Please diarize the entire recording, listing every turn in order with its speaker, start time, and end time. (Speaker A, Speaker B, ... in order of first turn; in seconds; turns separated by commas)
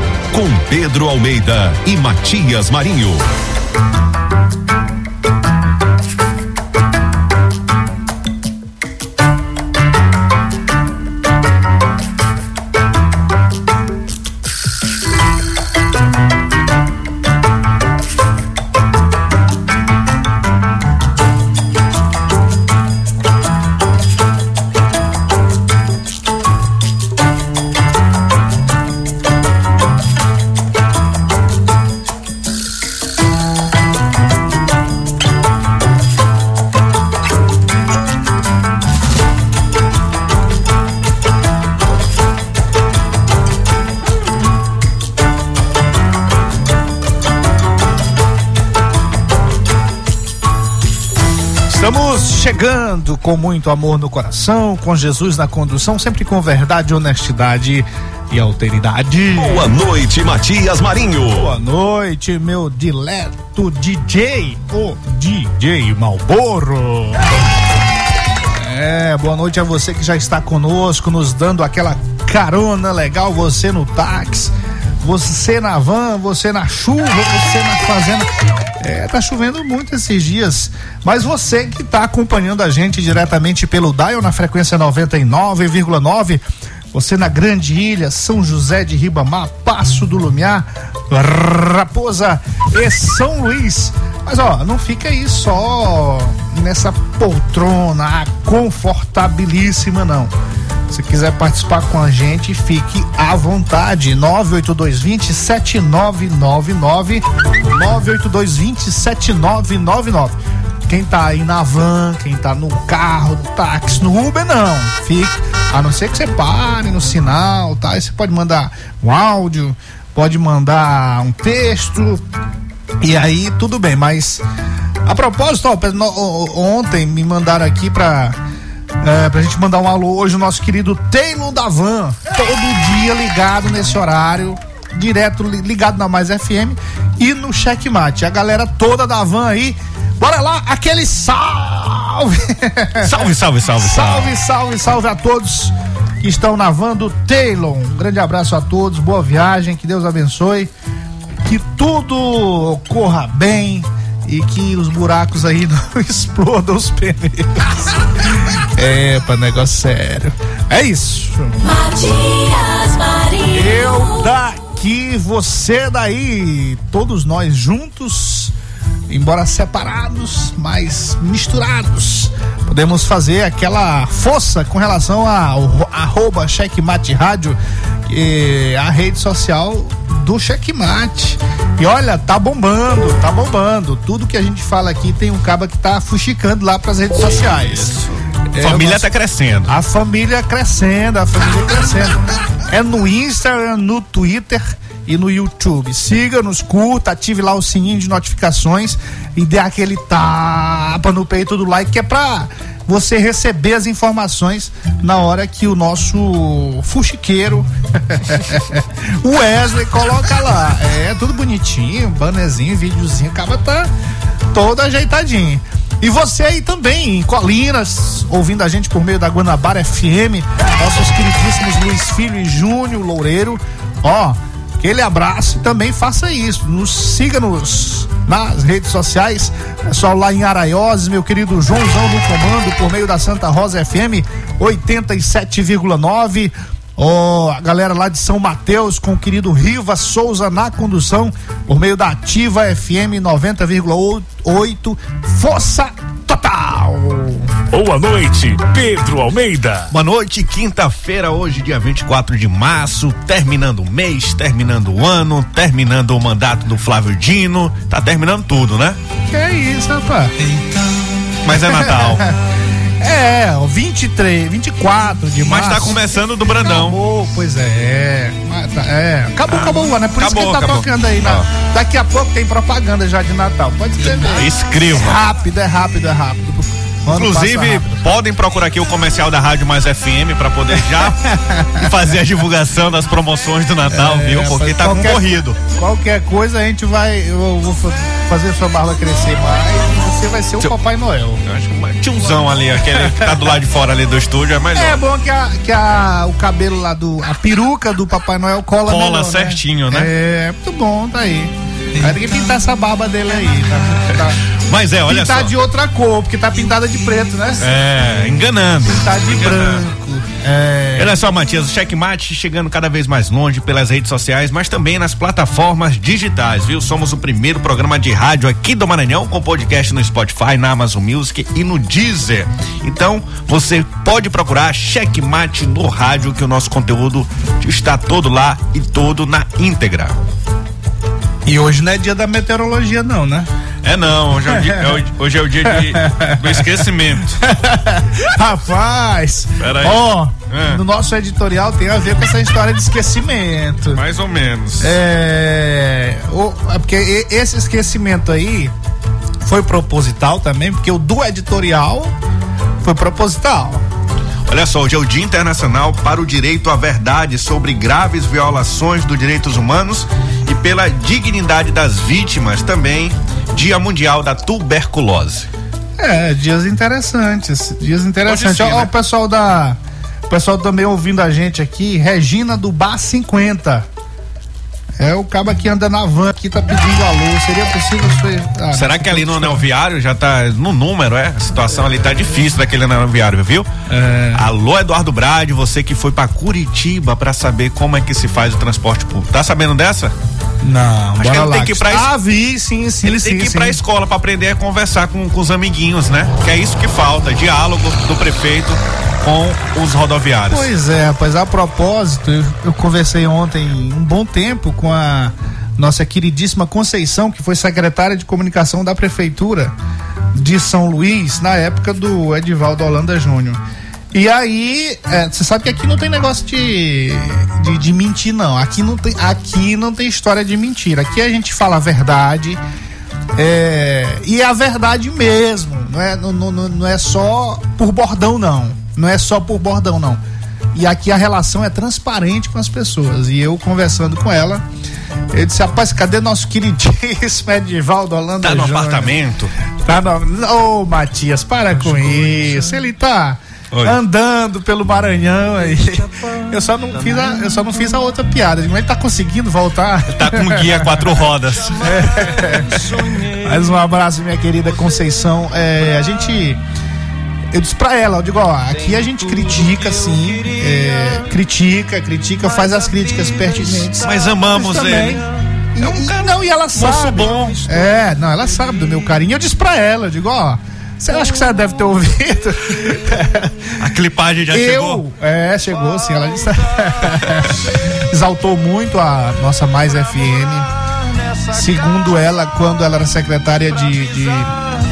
Speaker A: 0.3-3.3, Speaker B: 51.7-59.7, Speaker A: 59.3-61.5, Speaker B: 61.4-67.2, Speaker B: 68.5-100.3, Speaker B: 100.9-122.2, Speaker B: 123.0-124.4, Speaker B: 125.0-128.4, Speaker B: 129.0-150.7, Speaker C: 143.0-144.3, Speaker B: 151.4-161.6, Speaker D: 161.6-164.3, Speaker B: 163.5-168.5, Speaker B: 169.1-187.9, Speaker C: 187.4-189.7, Speaker B: 188.5-189.1, Speaker B: 189.7-213.9, Speaker B: 214.5-247.5, Speaker E: 247.7-249.9, Speaker C: 249.9-259.0, Speaker B: 259.3-260.3, Speaker C: 261.4-262.3, Speaker B: 261.6-262.4, Speaker B: 263.0-278.0, Speaker C: 265.4-267.0, Speaker C: 269.5-271.5, Speaker C: 274.0-275.2, Speaker C: 277.1-285.6, Speaker B: 280.7-281.9, Speaker B: 283.9-291.4, Speaker C: 291.4-295.0, Speaker B: 292.9-293.4, Speaker B: 294.7-304.4, Speaker C: 298.9-300.1, Speaker C: 304.5-305.5, Speaker B: 305.1-307.6, Speaker C: 307.6-309.9, Speaker B: 308.8-311.1, Speaker C: 310.9-330.2, Speaker B: 331.4-333.5, Speaker C: 333.8-337.4, Speaker B: 334.5-335.0, Speaker B: 335.6-344.0, Speaker C: 339.6-340.8, Speaker C: 343.9-344.9, Speaker B: 344.8-348.7, Speaker B: 349.4-352.1, Speaker B: 352.8-353.8, Speaker C: 354.5-365.5, Speaker B: 366.0-373.9, Speaker C: 368.3-368.9, Speaker B: 375.0-379.6, Speaker C: 378.7-383.7, Speaker B: 383.9-384.4, Speaker C: 384.3-390.1, Speaker B: 390.6-393.8, Speaker C: 391.2-392.1, Speaker C: 393.0-400.7, Speaker B: 400.5-409.7, Speaker B: 410.3-413.6, Speaker B: 414.1-422.6, Speaker B: 423.3-430.2, Speaker B: 430.7-434.6, Speaker B: 435.3-439.1, Speaker C: 438.4-439.5, Speaker B: 439.8-451.2, Speaker C: 443.7-444.0, Speaker C: 450.1-452.9, Speaker B: 451.7-456.6, Speaker B: 457.5-473.7, Speaker C: 464.0-467.8, Speaker C: 473.8-475.0, Speaker B: 474.5-480.7, Speaker B: 481.5-484.5